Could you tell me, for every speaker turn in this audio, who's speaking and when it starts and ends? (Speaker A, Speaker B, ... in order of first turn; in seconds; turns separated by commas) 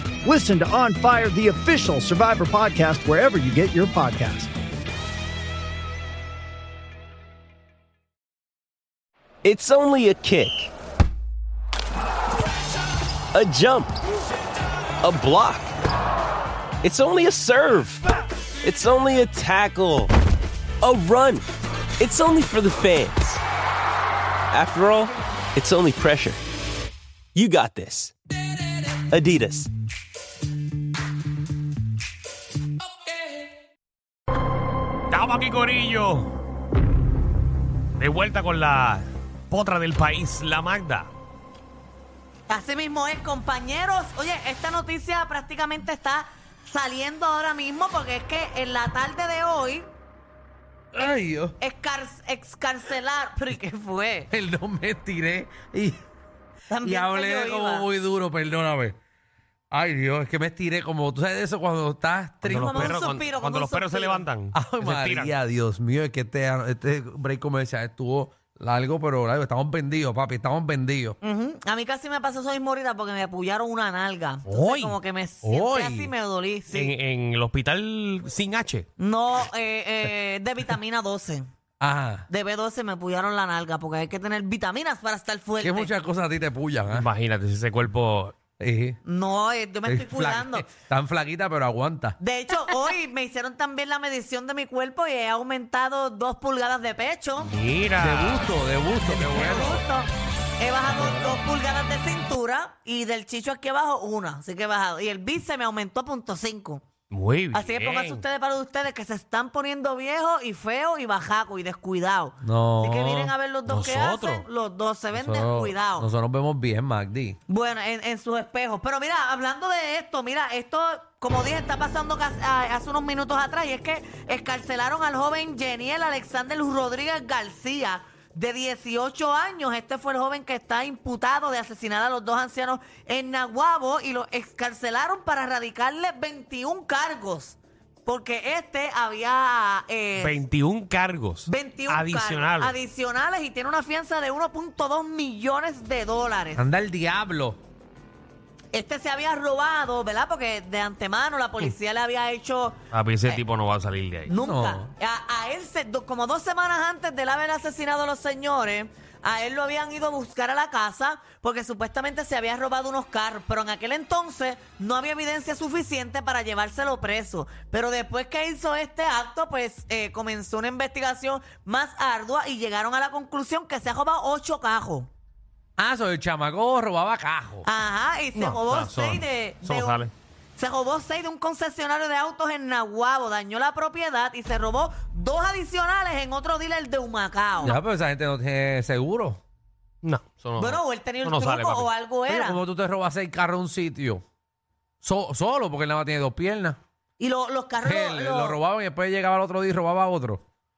Speaker A: 0.2-4.5, Speaker B: 9.4-10.7, Speaker B: 13.3-14.0, Speaker B: 15.0-15.7, Speaker B: 16.8-18.1, Speaker B: 18.6-20.1, Speaker B: 20.8-21.5, Speaker B: 22.0-23.4, Speaker B: 24.5-26.4, Speaker B: 27.3-28.1, Speaker B: 29.1-29.7, Speaker C: 35.1-36.3, Speaker C: 38.0-41.1, Speaker D: 42.5-49.9, Speaker E: 50.9-51.6, Speaker D: 51.6-54.3, Speaker E: 54.3-56.0, Speaker D: 56.7-57.9, Speaker E: 56.8-59.0, Speaker E: 59.7-63.0, Speaker C: 62.5-65.3, Speaker D: 62.5-64.3, Speaker E: 64.5-71.2, Speaker D: 71.2-76.9, Speaker C: 74.5-75.0, Speaker E: 75.4-76.1, Speaker C: 76.7-78.9, Speaker D: 79.0-81.5, Speaker E: 81.8-82.3, Speaker D: 82.3-85.9, Speaker E: 85.6-87.1, Speaker C: 86.9-88.3, Speaker E: 88.6-89.0, Speaker D: 89.0-90.7, Speaker E: 89.8-92.2, Speaker D: 92.2-97.5, Speaker C: 97.4-98.5, Speaker E: 98.0-99.8, Speaker D: 99.0-106.8, Speaker E: 100.9-101.4, Speaker C: 107.1-108.2, Speaker D: 107.5-116.1, Speaker E: 112.4-113.3, Speaker C: 113.7-114.5, Speaker E: 115.1-117.4, Speaker D: 117.5-140.4, Speaker C: 140.2-142.8, Speaker D: 141.5-146.7, Speaker E: 146.6-147.6, Speaker D: 148.7-152.8, Speaker C: 152.9-154.3, Speaker D: 154.3-175.1, Speaker E: 154.3-154.9, Speaker E: 175.8-177.7, Speaker D: 177.7-180.0, Speaker C: 178.4-180.1, Speaker D: 180.6-187.8, Speaker E: 187.6-189.4, Speaker C: 190.0-191.9, Speaker D: 190.6-192.6, Speaker E: 192.3-194.2, Speaker E: 195.0-196.8, Speaker D: 197.2-198.6, Speaker E: 197.8-200.4